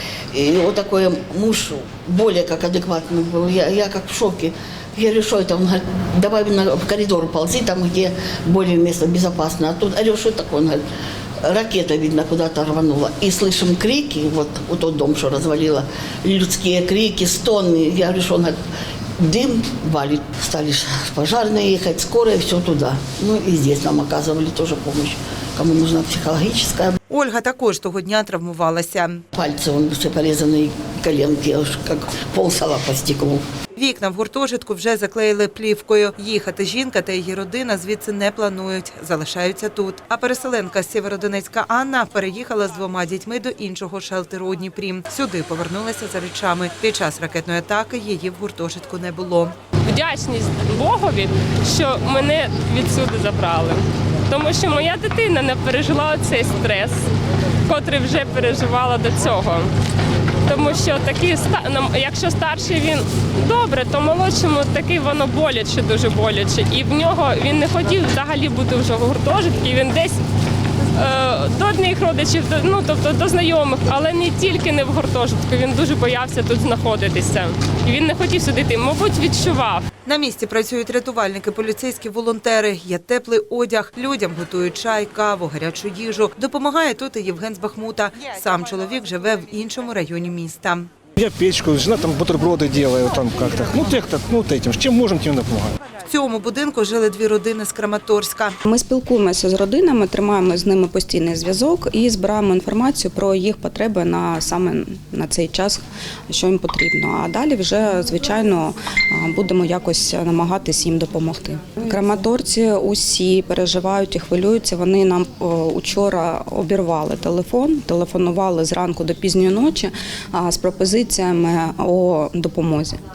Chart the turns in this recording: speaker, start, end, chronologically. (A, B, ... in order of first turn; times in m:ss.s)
0:00.3-0:10.8 A
0:11.4-0:18.6 A
0:19.2-0:27.0 A
0:27.1-0:29.2 B
0:29.3-0:33.4 A
0:33.7-0:49.6 B
0:49.9-0:57.1 C
0:57.6-0:59.7 C
1:00.4-1:10.2 C
1:10.9-1:19.9 C
1:20.0-1:30.9 B
1:31.2-1:35.7 D
1:36.0-1:38.6 B
1:38.6-2:03.0 E